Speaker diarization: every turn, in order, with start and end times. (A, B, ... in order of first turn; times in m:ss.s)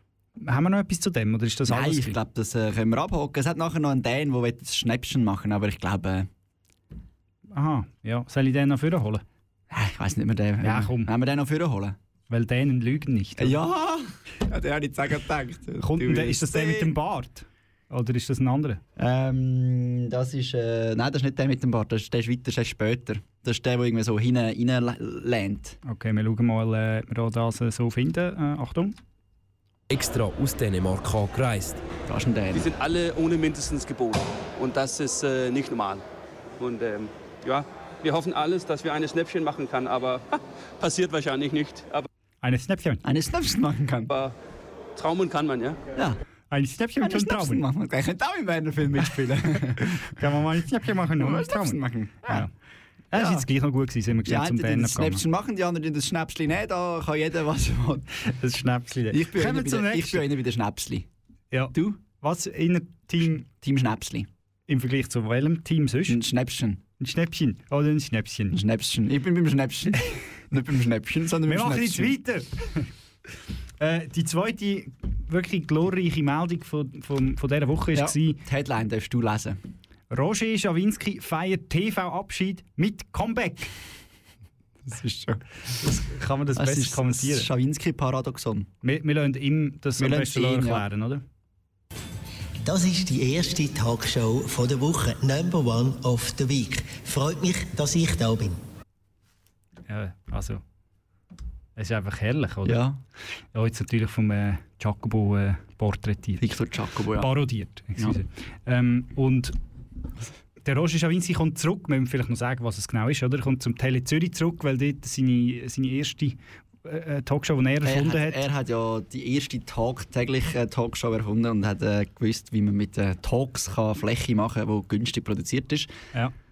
0:00.4-0:02.2 A
0:01.7-0:06.3 B
0:07.5-0:09.2 A
0:09.7-0:12.0 B
0:10.6-0:11.1 A
0:12.3-0:13.6 A
0:13.4-0:16.9 B
0:15.8-0:18.8 A
0:19.0-0:25.8 B
0:25.8-0:29.0 A
0:29.9-0:31.8 C
0:32.1-0:32.7 B
0:32.5-0:36.0 D
0:36.6-0:42.1 D
0:42.4-0:43.0 A
0:43.0-0:44.1 B
0:44.1-0:44.3 D
0:45.0-0:45.8 D
0:46.5-0:47.6 A
0:47.0-0:50.0 B
0:50.1-0:52.5 A
0:51.2-0:52.5 B
0:53.1-0:55.2 A
0:53.1-0:53.5 B
0:54.2-0:58.0 B
0:58.2-1:00.2 A
0:59.1-1:01.1 B
1:01.5-1:03.5 A
1:01.7-1:02.0 B
1:03.4-1:04.3 B
1:04.7-1:06.2 A
1:06.1-1:06.8 B
1:07.0-1:08.6 A
1:08.5-1:12.2 B
1:11.5-1:12.8 A
1:13.8-1:18.4 A
1:17.9-1:19.6 B
1:20.1-1:23.7 A
1:24.8-1:25.4 B
1:25.8-1:27.5 A
1:26.5-1:28.7 B
1:28.8-1:31.2 A
1:30.0-1:30.8 B
1:32.6-1:38.6 E
1:39.9-1:40.6 A
1:41.8-1:42.8 A
1:42.6-1:43.0 B
1:43.5-1:46.4 A
1:46.4-1:47.3 B
1:47.2-1:49.6 A
1:50.6-1:58.4 A
1:57.8-2:05.9 B